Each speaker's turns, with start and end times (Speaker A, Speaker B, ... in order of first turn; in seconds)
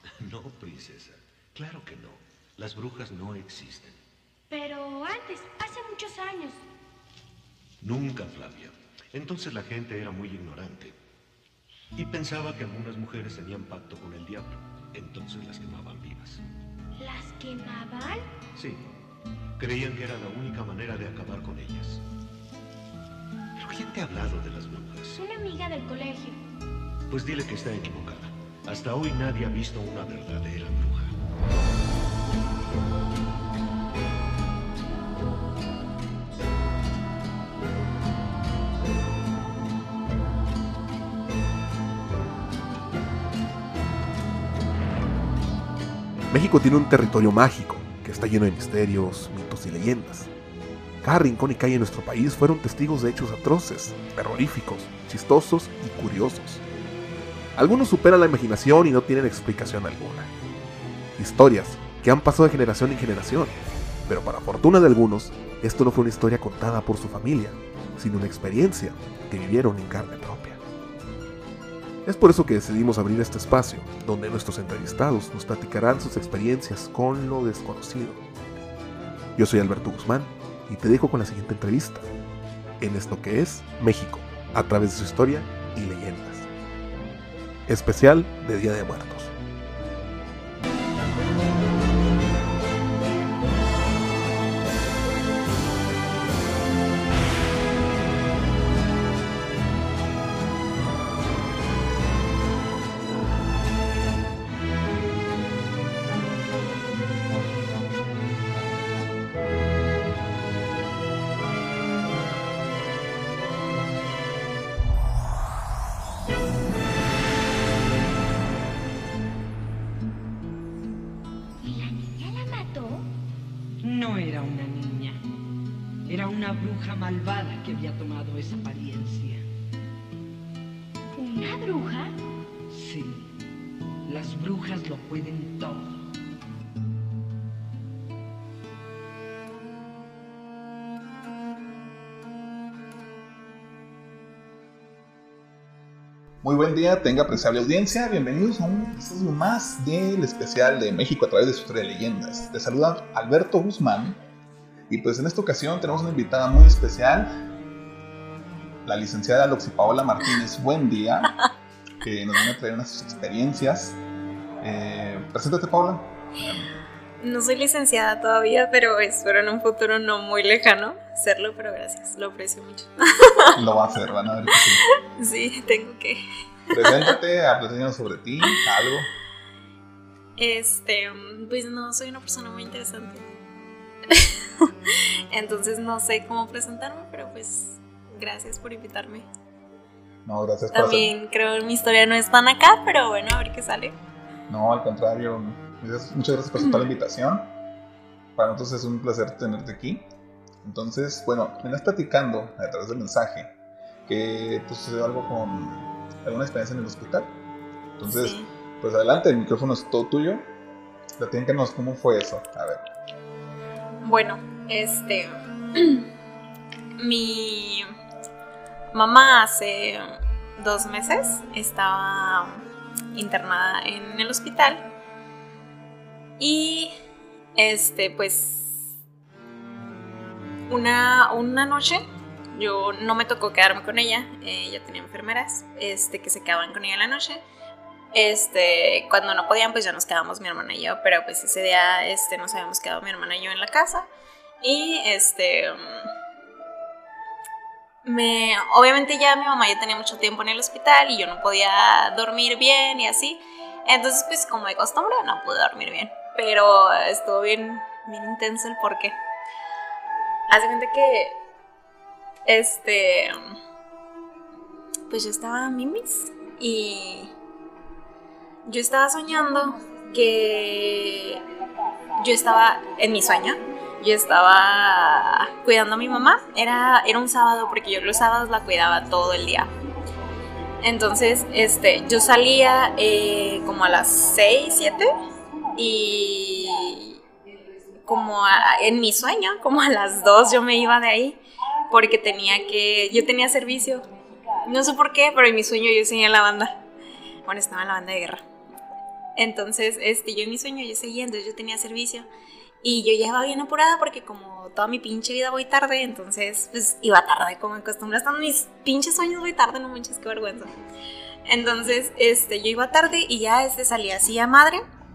Speaker A: 0.2-4.0, 7.8-10.9, 11.9-16.4, 18.5-18.8, 19.6-22.0, 23.6-25.2, 27.1-31.2
Speaker B: 4.5-6.6, 17.0-18.3, 25.1-26.4, 121.6-123.0, 131.2-132.1
Speaker C: 46.3-50.3, 51.0-56.6, 57.5-60.3, 61.2-70.6, 72.0-78.2, 79.3-82.1, 82.8-86.5, 87.7-89.3
Speaker D: 123.8-125.2, 126.0-129.4, 132.7-133.3, 134.1-135.9
Speaker E: 146.4-154.2, 154.9-157.4, 158.8-161.3, 162.0-164.0, 164.6-166.7, 173.5-174.8, 176.7-179.1, 190.2-191.1, 194.5-197.5, 198.3-200.1, 200.6-203.5, 204.1-207.3, 208.0-210.4, 211.2-212.8
Speaker F: 167.2-173.6, 174.5-177.1, 180.4-183.2, 184.1-189.3, 190.7-193.9, 208.1-208.5, 214.0-216.1, 217.0-217.9, 218.9-220.0, 220.6-222.6, 223.1-224.8, 226.4-226.9, 227.6-228.9, 230.7-232.0, 232.5-237.4, 238.1-244.1, 244.6-245.9, 248.0-259.1, 260.5-261.4, 262.4-263.4, 265.1-267.3, 268.6-271.4, 272.1-279.7, 280.8-285.1, 285.8-287.2, 288.1-291.4, 291.9-294.1, 294.6-296.8, 297.4-298.4, 299.4-302.3, 302.8-310.7, 311.4-314.8